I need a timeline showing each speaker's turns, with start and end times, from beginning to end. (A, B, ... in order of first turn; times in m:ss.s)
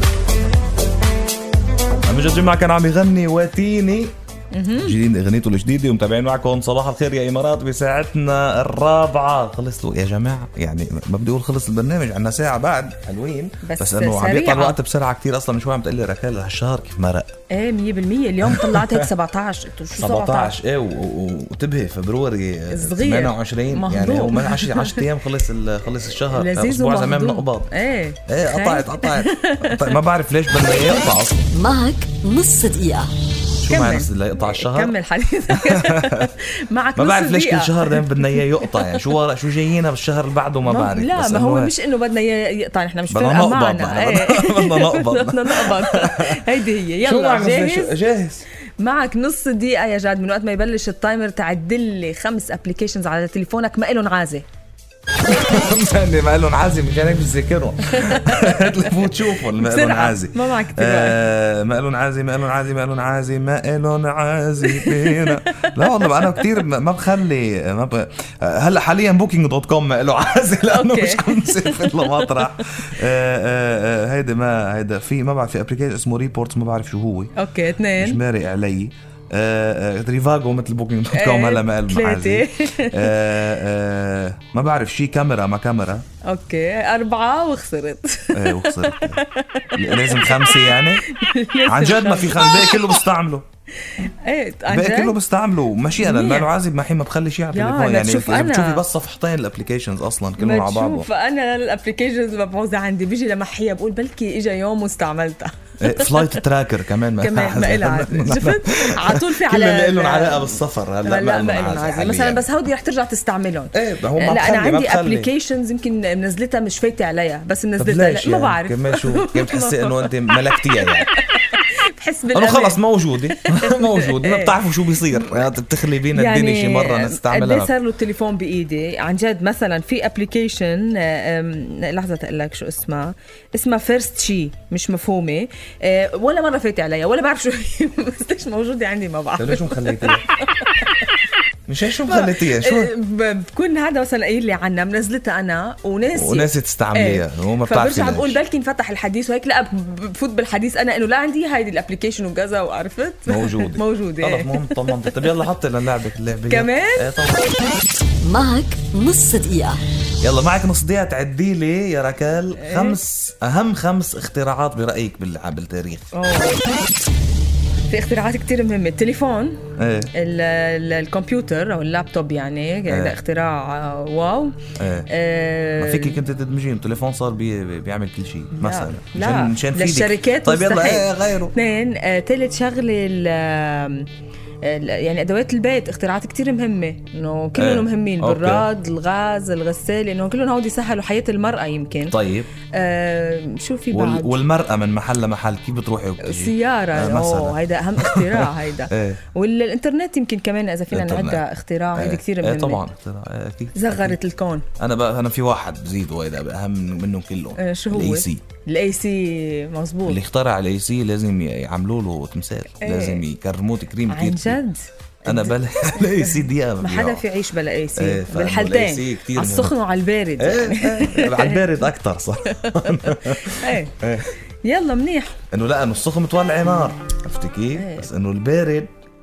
0:02.0-0:04.1 A
0:04.5-0:05.0 B
0:04.8-0:17.3 A
0:13.6-0:14.8 B
0:17.5-0:20.6 B
0:18.4-0:19.1 A
0:20.0-0:27.7 A
0:22.7-0:25.1 B
0:26.1-0:30.0 B
0:28.3-0:31.5 A
0:31.5-0:33.1 C
0:33.6-0:35.0 A
0:33.6-0:39.0 B
0:35.6-0:36.3 A
0:37.0-0:41.7 A
0:40.6-0:47.9 B
0:43.1-0:48.4 A
0:48.8-0:54.4 B
0:55.3-1:17.3 A
0:57.9-1:01.2 B
1:04.6-1:06.6 B
1:10.7-1:12.9 B
1:17.4-1:18.2 B
1:18.0-1:26.0 A
1:21.1-1:23.1 B
1:26.2-1:33.0 B
1:28.3-1:29.2 A
1:29.7-1:31.0 A
1:31.6-1:33.4 A
1:33.8-1:35.2 B
1:34.7-1:41.1 A
1:36.0-1:36.5 B
1:37.5-1:38.8 B
1:40.4-1:46.4 B
1:45.8-1:52.5 A
1:47.2-2:05.3 B
1:53.7-1:55.3 A
1:57.8-2:01.1 A
2:02.3-2:07.7 A
2:06.1-2:21.1 B
2:19.4-2:20.3 A
2:21.7-2:22.9 A
2:22.0-2:35.2 B
2:26.2-2:28.4 A
2:33.2-2:37.6 A
2:36.5-2:37.1 B
2:38.2-2:39.8 C
2:40.2-2:46.1 A
2:42.6-2:43.0 B
2:46.1-2:46.7 B
2:47.9-2:49.6 B
2:49.8-2:50.1 A
2:50.1-2:54.6 B
2:52.9-2:53.2 A
2:54.8-2:55.1 A
2:55.1-2:56.2 B
2:55.8-3:01.5 A
2:58.6-3:04.1 B
3:04.6-3:12.2 B
3:07.6-3:08.7 A
3:12.1-3:12.5 A
3:12.7-3:14.4 B
3:13.9-3:19.2 A
3:16.2-3:22.8 B
3:20.9-3:21.4 A
3:22.0-3:24.2 A
3:23.8-3:24.7 B
3:24.8-3:28.4 A
3:27.6-3:30.2 B
3:30.0-3:34.6 A
3:32.8-3:33.2 B
3:34.1-3:41.9 B
3:35.2-3:37.3 A
3:38.0-3:39.8 A
3:40.4-3:44.4 A
3:42.4-3:43.9 B
3:44.6-3:45.4 B
3:45.5-3:48.9 A
3:47.8-3:48.1 B